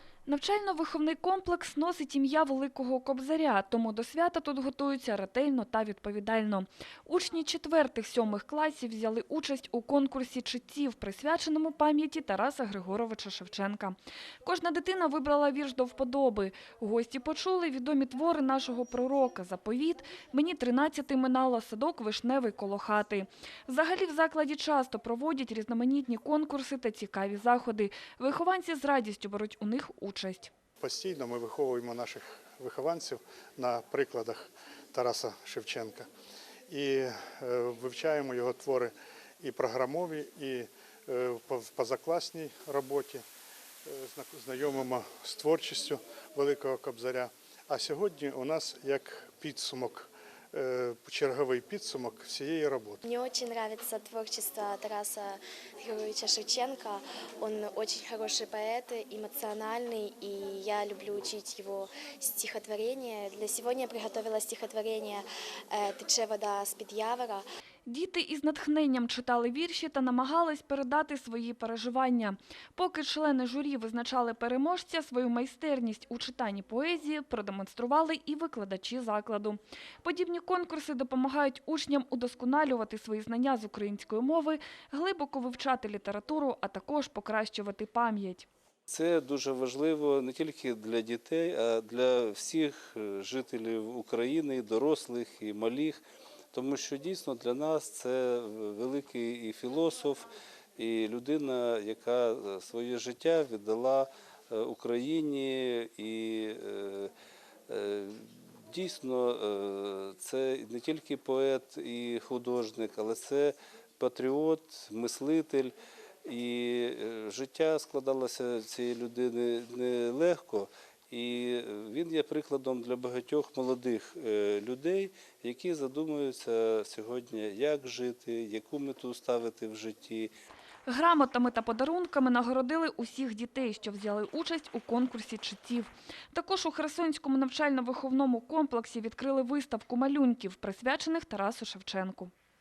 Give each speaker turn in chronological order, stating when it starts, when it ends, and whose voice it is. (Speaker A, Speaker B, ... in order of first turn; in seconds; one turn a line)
Speaker A: 0.3-30.5
Speaker B: 30.8-36.1
Speaker B: 36.7-43.2
Speaker B: 43.8-53.0
Speaker C: 53.0-67.4
Speaker A: 67.9-88.5
Speaker D: 88.9-96.0
Speaker D: 96.5-107.1
Speaker D: 107.7-115.7
Speaker D: 116.2-130.3
Speaker A: 130.9-142.3